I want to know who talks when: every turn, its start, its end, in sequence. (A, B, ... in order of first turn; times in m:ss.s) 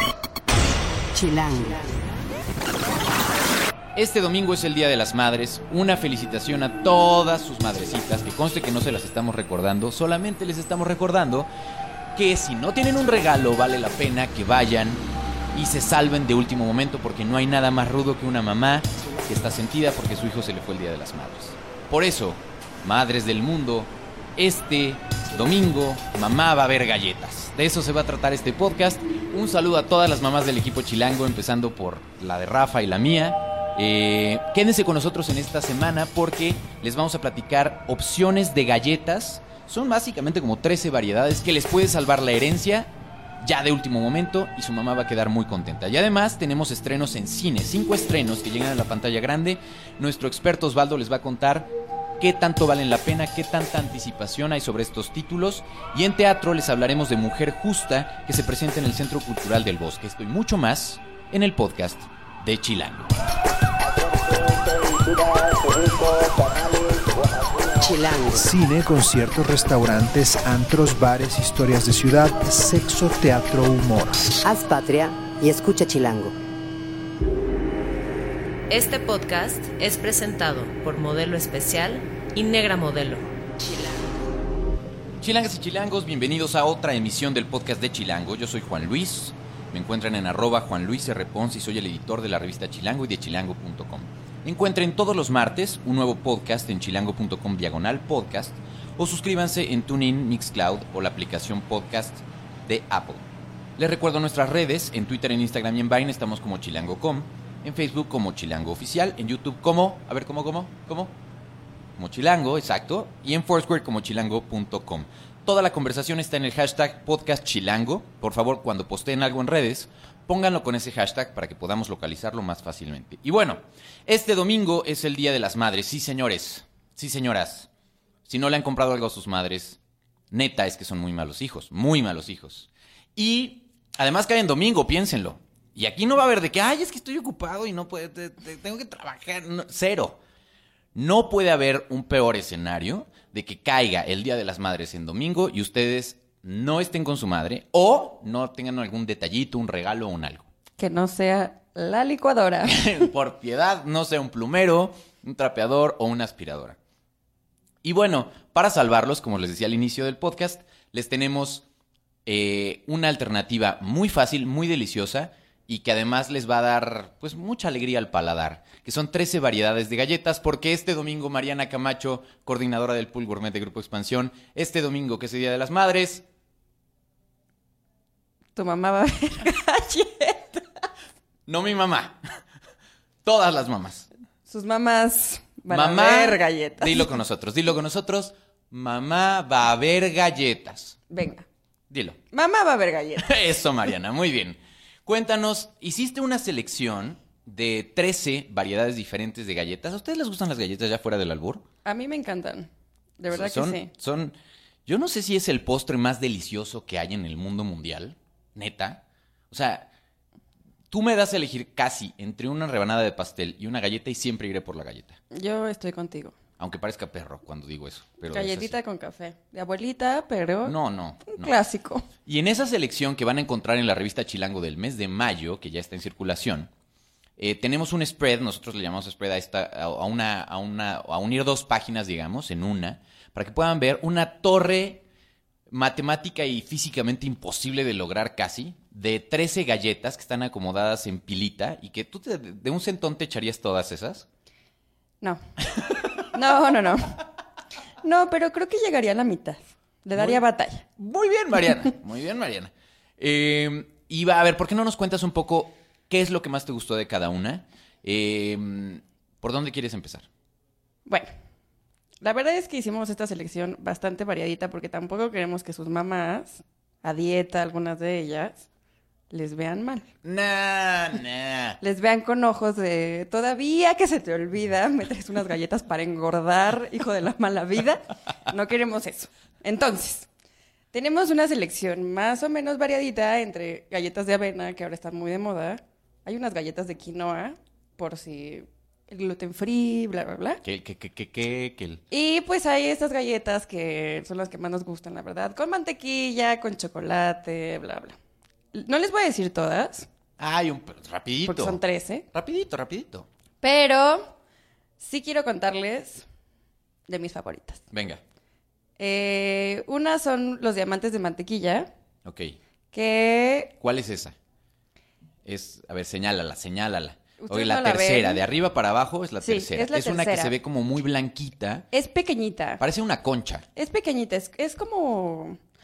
0:01.1-0:01.8 A
0:03.9-0:11.5 B
0:12.1-1:03.1 B
1:07.7-1:08.5 A
1:08.3-1:14.3 C
1:14.4-1:16.3 A
1:18.7-1:23.3 D
1:25.2-1:43.2 B
1:43.8-1:51.2 B
1:52.0-2:07.7 B
2:08.3-2:09.8 B
2:10.3-2:20.2 B
2:20.9-2:30.5 B
2:30.8-2:33.0 E
2:32.6-2:36.8 B
2:37.8-2:41.6 B
2:42.2-2:56.2 B
2:58.5-3:00.7 E
3:01.5-3:02.2 B
3:03.2-3:04.1 B
3:04.5-3:07.1 E
3:05.7-3:11.0 B
3:11.1-3:11.4 E
3:11.9-3:12.2 B
3:12.3-3:13.3 E
3:13.2-3:21.6 B
3:21.8-3:23.9 E
3:23.3-3:29.9 B
3:30.9-3:35.2 B
3:35.3-3:36.3 E
3:36.6-3:38.8 B
3:38.3-3:42.1 E
3:40.6-3:41.5 B
3:42.2-3:46.7 B
3:47.4-3:55.0 B
3:55.7-4:04.2 B
4:05.7-4:06.0 B
4:06.3-4:07.2 E
4:08.0-4:10.8 E
4:10.1-4:10.4 B
4:11.0-4:20.3 B
4:21.0-4:21.3 E
4:22.2-4:28.7 E
4:29.3-4:30.1 E
4:30.2-4:31.8 B
4:31.8-4:40.3 E
4:40.9-4:50.6 E
4:50.6-4:52.0 B
4:52.1-4:58.1 E
4:58.7-5:00.1 E
5:00.4-5:01.8 B
5:01.4-5:02.2 E
5:02.3-5:03.3 B
5:03.6-5:04.3 E
5:05.0-5:06.2 E
5:07.1-5:07.8 E
5:07.9-5:08.2 B
5:09.0-5:11.9 E
5:12.2-5:12.6 B
5:12.9-5:13.7 E
5:13.8-5:14.4 B
5:15.4-5:21.9 B
5:17.4-5:18.4 E
5:19.4-5:20.6 E
5:21.9-5:22.8 E
5:22.8-5:23.6 B
5:23.7-5:25.6 E